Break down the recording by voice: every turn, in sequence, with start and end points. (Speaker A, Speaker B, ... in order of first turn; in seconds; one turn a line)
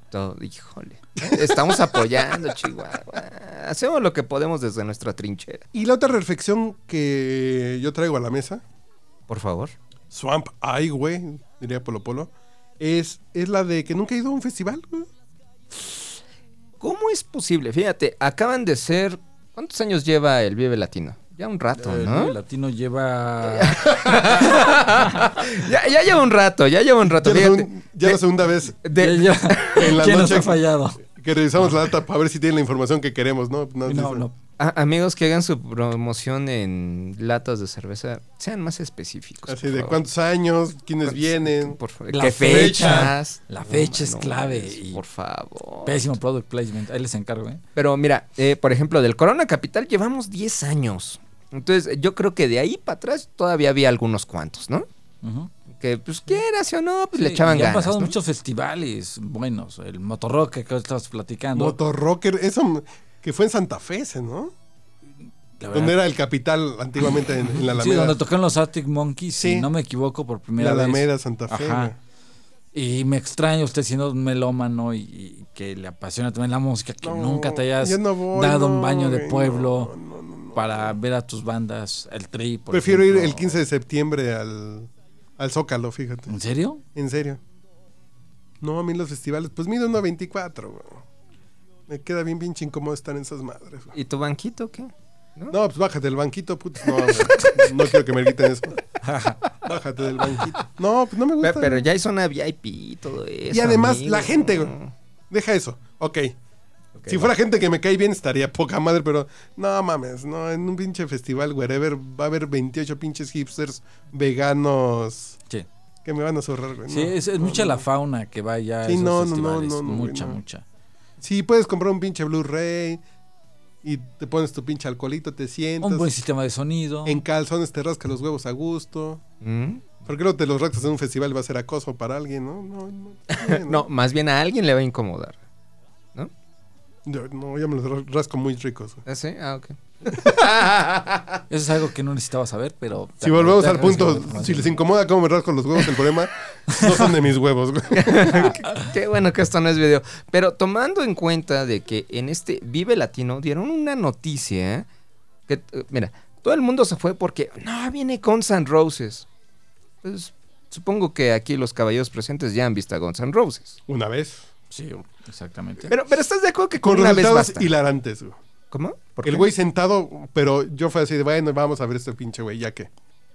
Speaker A: 0.1-5.7
Speaker B: 1.2-2.2
Speaker B: 5.7-8.6
Speaker A: 9.3-9.8
Speaker B: 10.1-15.1
Speaker A: 16.8-22.3
Speaker C: 21.8-24.6
Speaker A: 23.4-28.2
Speaker B: 27.1-28.8
Speaker A: 28.8-29.4
Speaker C: 28.9-31.0
Speaker B: 29.7-34.3
Speaker C: 33.9-34.3
Speaker A: 34.6-40.0
Speaker B: 39.5-41.8
Speaker A: 41.0-46.0
Speaker C: 42.1-45.0
Speaker B: 42.4-43.1
Speaker C: 45.8-47.6
Speaker A: 47.7-54.9
Speaker C: 55.2-55.5
Speaker A: 55.7-58.1
Speaker C: 57.1-61.8
Speaker B: 61.5-64.5
Speaker C: 65.6-66.0
Speaker B: 65.7-68.2
Speaker C: 67.5-71.9
Speaker B: 69.4-69.7
Speaker B: 70.6-71.9
Speaker C: 72.7-79.9
Speaker B: 77.0-80.9
Speaker C: 80.5-83.5
Speaker B: 82.7-86.3
Speaker C: 86.3-86.8
Speaker B: 86.9-87.4
Speaker B: 88.6-91.0
Speaker B: 91.9-93.9
Speaker A: 93.9-95.6
Speaker B: 95.5-98.7
Speaker C: 99.0-99.4
Speaker B: 99.6-101.8
Speaker A: 101.4-104.9
Speaker B: 103.5-104.7
Speaker B: 105.3-106.3
Speaker A: 107.0-107.3
Speaker B: 107.1-115.4
Speaker B: 116.0-117.8
Speaker C: 116.9-120.6
Speaker B: 118.8-120.4
Speaker B: 121.2-123.0
Speaker B: 123.8-126.1
Speaker C: 125.8-127.2
Speaker B: 127.0-129.2
Speaker A: 129.4-129.8
Speaker B: 130.0-133.8
Speaker A: 133.3-135.4
Speaker B: 137.1-139.0
Speaker A: 139.1-141.4
Speaker C: 141.5-144.8
Speaker B: 143.2-148.5
Speaker A: 147.9-154.9
Speaker A: 155.5-159.3
Speaker A: 160.0-163.8
Speaker B: 163.9-164.5
Speaker C: 164.7-165.9
Speaker A: 165.9-167.7
Speaker B: 166.8-168.4
Speaker A: 168.7-169.5
Speaker B: 169.2-172.9